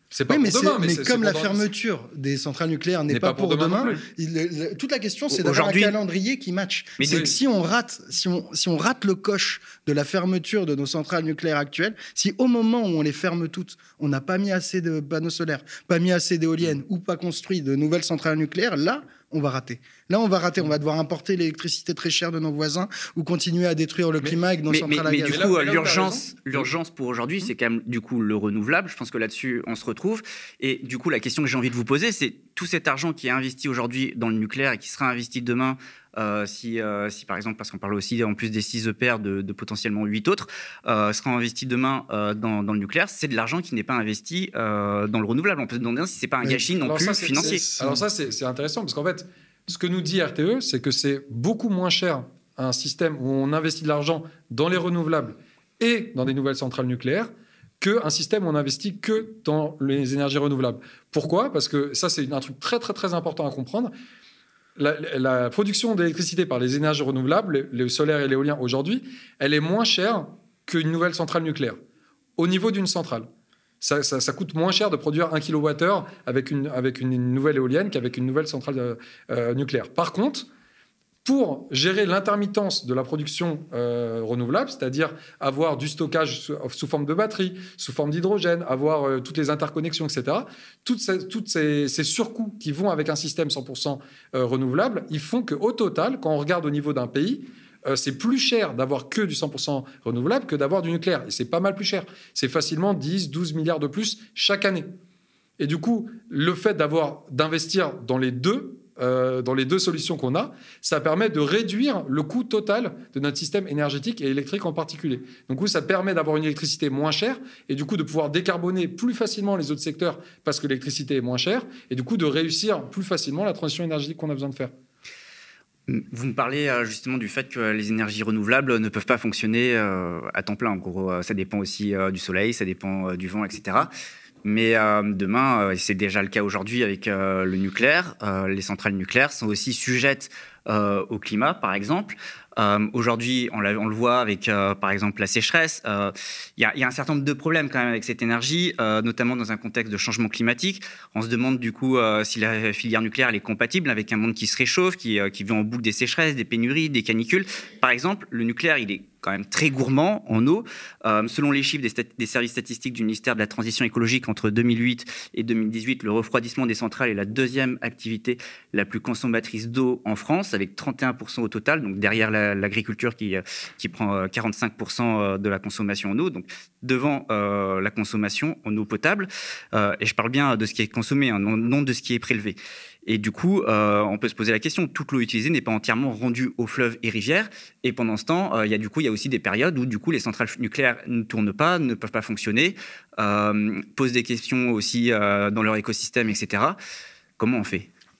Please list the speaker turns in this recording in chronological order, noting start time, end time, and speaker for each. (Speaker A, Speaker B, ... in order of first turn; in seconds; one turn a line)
Speaker A: 0.1-1.6
Speaker B: 0.3-25.4
Speaker A: 3.1-4.0
Speaker C: 5.3-6.0
Speaker C: 7.0-7.3
Speaker A: 7.0-7.3
Speaker C: 24.7-47.6
Speaker A: 25.2-26.7
Speaker A: 46.8-63.9
Speaker B: 47.3-48.0
Speaker A: 64.8-71.8
Speaker A: 72.4-73.3
Speaker A: 73.8-80.5
Speaker A: 81.2-104.9
Speaker A: 105.6-124.7
Speaker C: 125.9-133.9
Speaker C: 134.4-196.8
Speaker C: 197.4-197.9